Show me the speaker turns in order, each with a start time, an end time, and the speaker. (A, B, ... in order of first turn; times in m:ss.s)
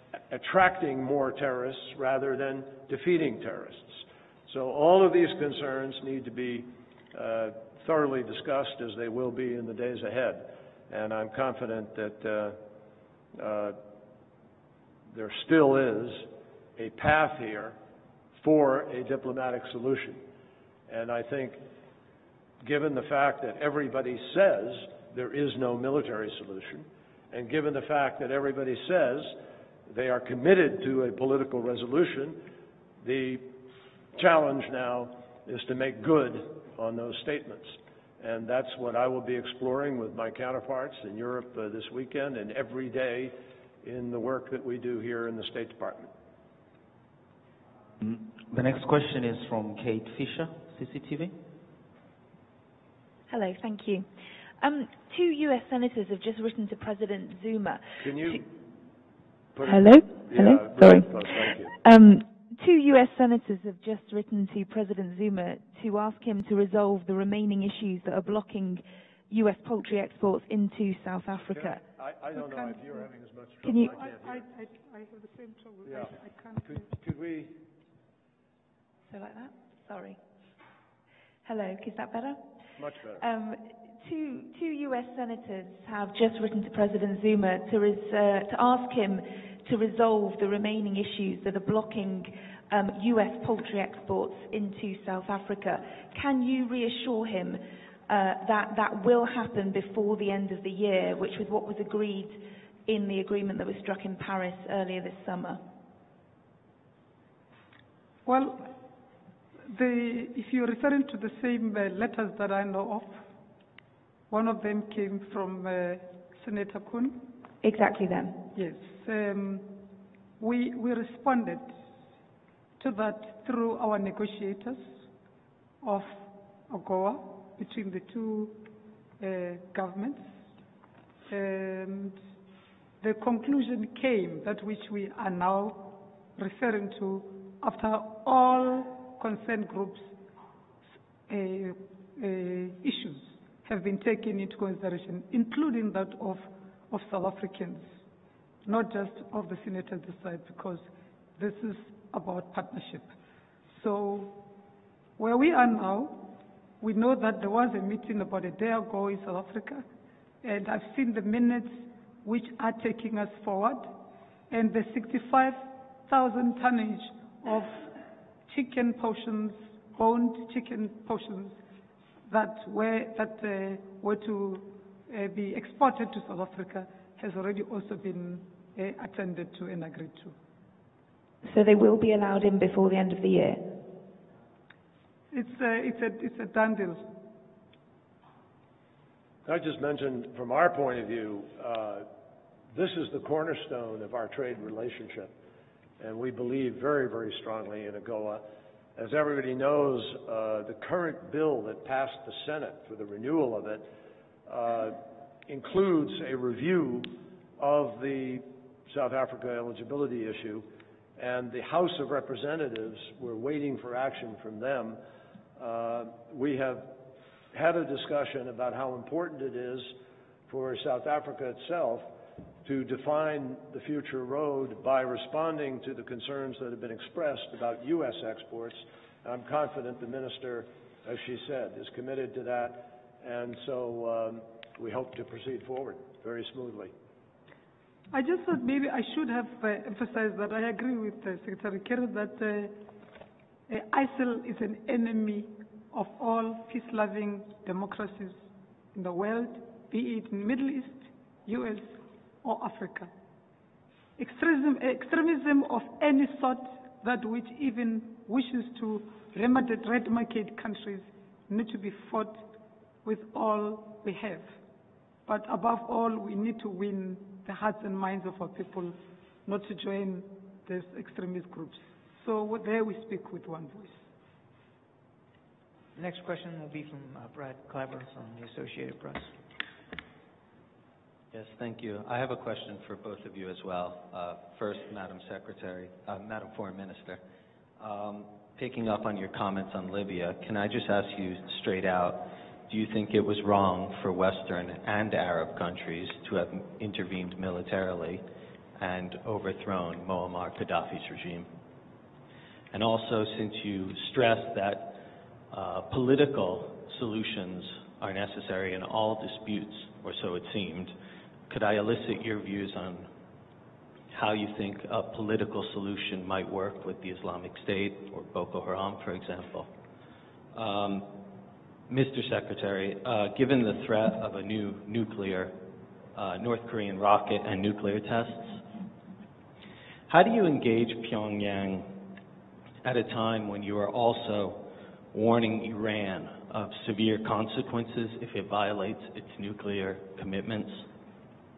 0:00.3-0:12.6 A
0:13.4-0:13.8 A
0:15.1-0:17.8 A
0:18.4-0:20.2 A
0:20.9-0:21.6 A
0:22.6-0:29.4 A
0:29.9-0:32.4 A
0:33.0-0:33.5 A
0:34.2-0:46.1 A
0:48.0-0:51.4 B
0:53.3-0:54.1 C
0:54.6-0:58.4 C
0:58.0-0:58.5 A
0:59.6-1:01.8 A
0:59.7-1:11.8 C
1:11.5-1:14.4 A
1:13.6-1:13.9 C
1:13.8-1:16.9 D
1:15.9-1:17.6 A
1:19.1-1:20.2 C
1:21.4-1:22.4 C
1:22.8-1:23.2 A
1:23.2-1:45.6 C
1:48.3-1:48.7 D
1:49.7-1:53.2 D
1:54.3-1:57.2 D
1:57.6-1:58.4 C
1:58.6-1:59.8 D
2:00.4-2:01.8 D
2:02.8-2:05.0 D
2:05.8-2:08.6 D
2:09.2-2:10.4 D
2:11.3-2:12.2 D
2:13.0-2:20.2 D
2:21.3-2:27.9 D
2:28.6-2:33.1 D
2:33.7-2:34.4 D
2:35.2-2:39.9 D
2:40.4-2:44.0 D
2:44.5-2:47.8 D
2:48.5-2:51.6 D
2:52.3-3:00.4 D
3:01.4-3:03.8 C
3:05.3-3:07.1 D
3:09.5-3:12.1 A
3:12.7-3:15.3 A
3:16.0-3:18.4 A
3:19.0-3:23.9 A
3:24.5-3:30.7 A
3:31.2-3:35.0 A
3:35.6-3:36.9 A
3:37.5-3:40.0 A
3:40.5-3:42.0 A
3:42.6-3:56.9 A
3:58.1-4:02.8 D
4:03.7-4:13.1 D
4:14.2-4:22.5 D
4:23.0-4:24.5 D
4:25.3-4:34.0 D
4:36.0-4:39.3 E
4:41.3-4:47.2 F
4:47.8-4:58.2 F
4:58.8-5:01.5 F
5:02.7-5:10.9 F
5:11.5-5:13.1 F
5:14.1-5:19.7 F
5:20.5-5:21.1 F
5:21.9-5:25.6 F
5:26.2-5:28.6 F
5:30.1-5:32.0 F
5:32.8-5:40.9 F